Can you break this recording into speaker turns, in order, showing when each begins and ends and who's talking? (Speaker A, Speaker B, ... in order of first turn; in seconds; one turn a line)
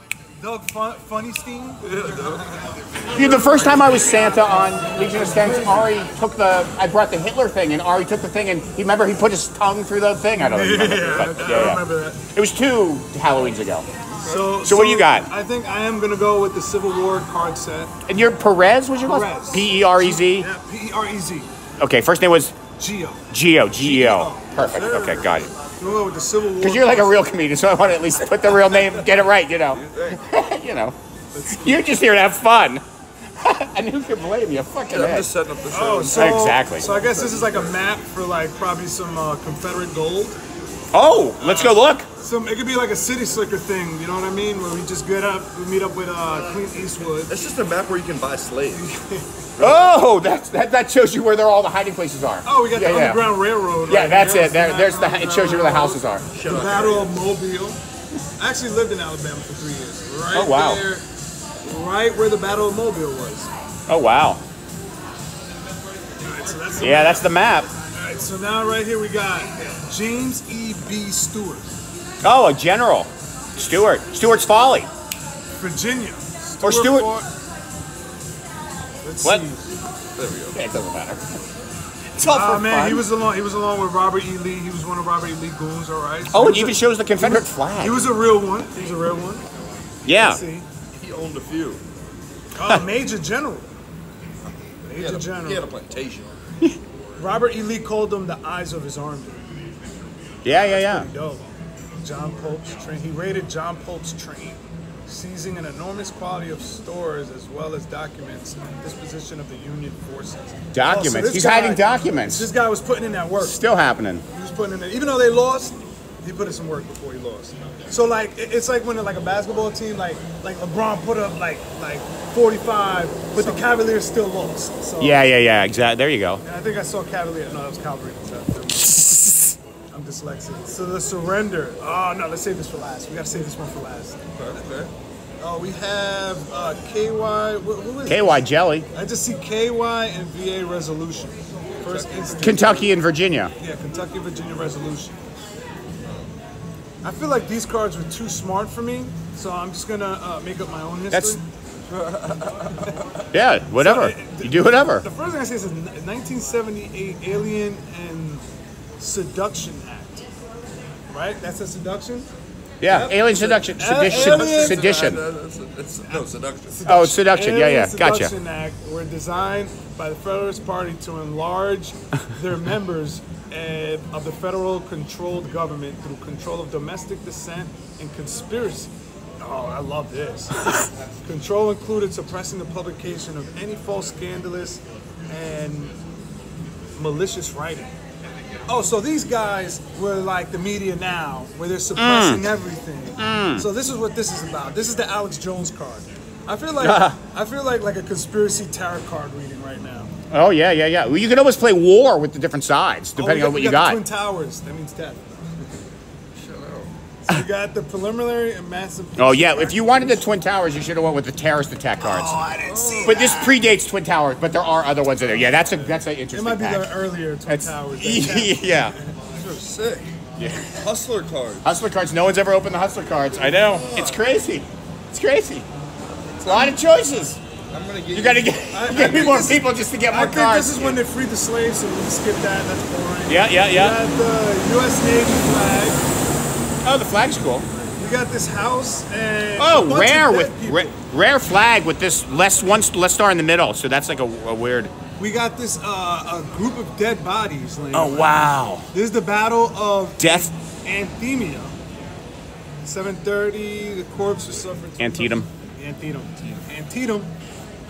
Speaker A: 0.4-3.5
Speaker B: 1.8-2.4
Speaker C: 3.1-11.8
Speaker B: 3.1-3.9
Speaker A: 4.0-4.4
Speaker A: 10.4-12.2
Speaker B: 11.2-11.8
Speaker C: 12.3-13.8
Speaker B: 14.1-14.6
Speaker A: 14.3-17.9
Speaker C: 14.6-15.3
Speaker C: 18.1-20.5
Speaker A: 19.0-21.5
Speaker C: 21.8-22.5
Speaker A: 22.8-23.2
Speaker C: 23.3-25.5
Speaker A: 23.8-24.5
Speaker B: 24.6-25.5
Speaker A: 25.8-27.2
Speaker C: 26.6-30.9
Speaker B: 28.5-30.2
Speaker A: 31.4-31.9
Speaker C: 31.5-32.8
Speaker C: 33.4-35.3
Speaker B: 34.9-37.8
Speaker A: 35.7-40.4
Speaker C: 36.1-36.9
Speaker C: 40.9-42.1
Speaker A: 41.7-47.3
Speaker B: 47.3-48.8
Speaker A: 48.7-49.3
Speaker B: 49.6-50.1
Speaker C: 49.6-53.3
Speaker A: 52.5-57.8
Speaker C: 53.9-56.3
Speaker B: 56.3-57.1
Speaker A: 58.4-61.0
Speaker C: 60.3-60.8
Speaker A: 61.6-63.5
Speaker C: 63.9-64.4
Speaker A: 66.2-67.3
Speaker C: 66.8-67.7
Speaker A: 67.9-71.7
Speaker C: 72.2-74.9
Speaker A: 75.6-77.3
Speaker C: 76.6-77.1
Speaker A: 79.0-79.7
Speaker B: 80.2-80.6
Speaker C: 80.5-81.2
Speaker C: 82.2-83.0
Speaker A: 82.2-89.5
Speaker C: 86.3-88.0
Speaker C: 90.0-90.4
Speaker A: 90.1-90.7
Speaker B: 90.9-91.8
Speaker A: 92.6-93.7
Speaker A: 94.8-95.7
Speaker B: 95.0-96.3
Speaker A: 97.2-99.4
Speaker C: 100.5-101.1
Speaker A: 100.5-113.6
Speaker C: 110.7-112.5
Speaker C: 113.4-114.2
Speaker A: 114.3-125.3
Speaker C: 125.0-126.4
Speaker A: 126.4-129.3
Speaker A: 129.9-134.7
Speaker B: 134.4-134.9
Speaker A: 135.4-142.8
Speaker C: 138.1-138.9
Speaker B: 141.7-142.8
Speaker C: 142.4-143.5
Speaker A: 143.6-145.2
Speaker B: 146.0-146.3
Speaker A: 147.0-151.4
Speaker C: 151.1-151.4
Speaker B: 151.9-153.0
Speaker C: 153.3-155.1
Speaker A: 153.8-158.4
Speaker A: 159.0-160.2
Speaker A: 161.1-162.3
Speaker C: 162.8-165.2
Speaker A: 162.8-164.8
Speaker B: 164.0-166.8
Speaker A: 166.1-180.7
Speaker C: 166.9-168.3
Speaker A: 181.2-185.9
Speaker A: 187.0-187.9
Speaker A: 188.7-200.1
Speaker C: 192.0-192.4
Speaker C: 193.2-193.7
Speaker C: 196.8-197.2
Speaker C: 200.3-204.0
Speaker A: 203.2-205.7
Speaker B: 206.4-206.9
Speaker A: 207.3-210.3
Speaker C: 209.2-212.4
Speaker A: 212.0-213.6
Speaker B: 212.6-213.4
Speaker C: 213.0-216.9
Speaker A: 216.3-219.0
Speaker C: 217.5-218.9
Speaker B: 219.4-220.1
Speaker C: 220.4-220.7
Speaker B: 220.7-221.7
Speaker C: 221.6-225.7
Speaker B: 223.3-224.3
Speaker B: 226.4-226.8
Speaker C: 226.5-227.4
Speaker B: 227.7-228.7
Speaker C: 228.1-231.0
Speaker A: 228.7-236.0
Speaker C: 233.3-234.0
Speaker C: 236.8-237.7
Speaker A: 238.0-241.0
Speaker C: 239.6-244.9
Speaker A: 245.2-251.7
Speaker C: 247.9-248.9
Speaker C: 250.2-250.5
Speaker A: 252.8-257.3
Speaker C: 255.0-255.5